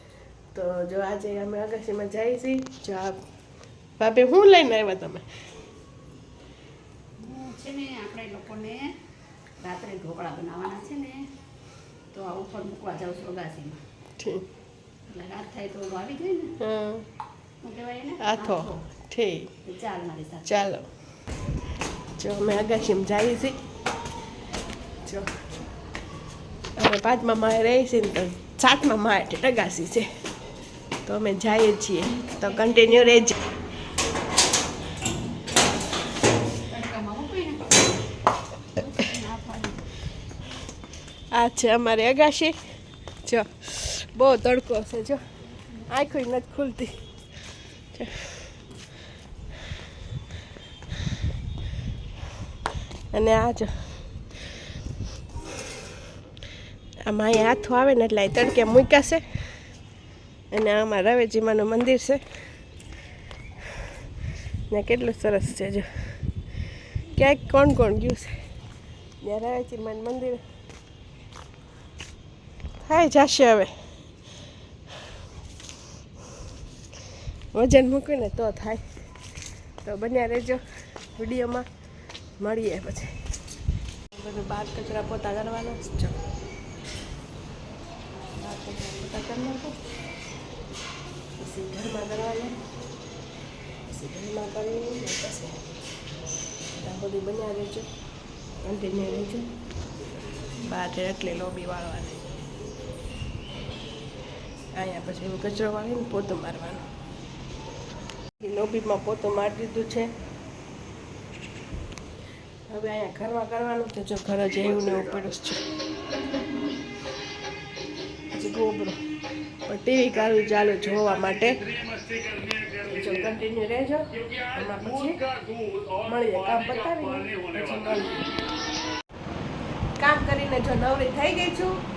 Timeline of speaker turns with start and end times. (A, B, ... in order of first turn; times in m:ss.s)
0:00.5-0:03.2 A
0:04.0-0:05.2 A
0:07.2-0:08.9 B
0:09.6-0:11.2 B
0:12.1-0:13.8 B
0:14.2-0:14.4 A
0:15.1-0:16.5 B
0:16.6-0:17.0 A
0:17.6-0:18.8 B
0:18.2-0:19.5 A
0:19.6-0:20.5 B
0:20.4-0:20.8 A
0:22.2-0:23.5 A
0:26.8-0:30.1 A
0:31.0-0:33.4 A
0:32.2-0:33.3 B
0:36.7-0:37.8 B
0:38.8-0:39.9 B
0:41.3-0:42.6 A
0:43.2-0:45.2 A
0:45.9-0:46.9 A
0:47.9-0:48.3 A
0:53.1-0:53.7 A
0:57.0-0:59.2 A
1:00.5-1:02.2 A
1:04.7-1:05.9 A
1:07.1-1:08.3 A
1:09.2-1:10.4 A
1:12.8-1:13.7 A
1:17.5-1:18.8 A
1:19.8-1:20.6 A
1:21.2-1:21.6 A
1:22.4-1:23.1 A
1:24.1-1:26.1 A
1:28.4-1:29.8 A
1:31.4-1:32.5 A
1:33.9-1:35.6 A
1:36.8-1:37.9 A
1:38.6-1:39.4 A
1:40.6-1:42.2 A
1:44.8-1:46.8 A
1:48.4-1:50.1 A
1:52.7-1:55.6 A
1:58.3-1:59.0 A
1:59.7-2:01.6 A
2:02.8-2:05.2 A
2:06.0-2:08.2 A
2:10.0-2:11.8 A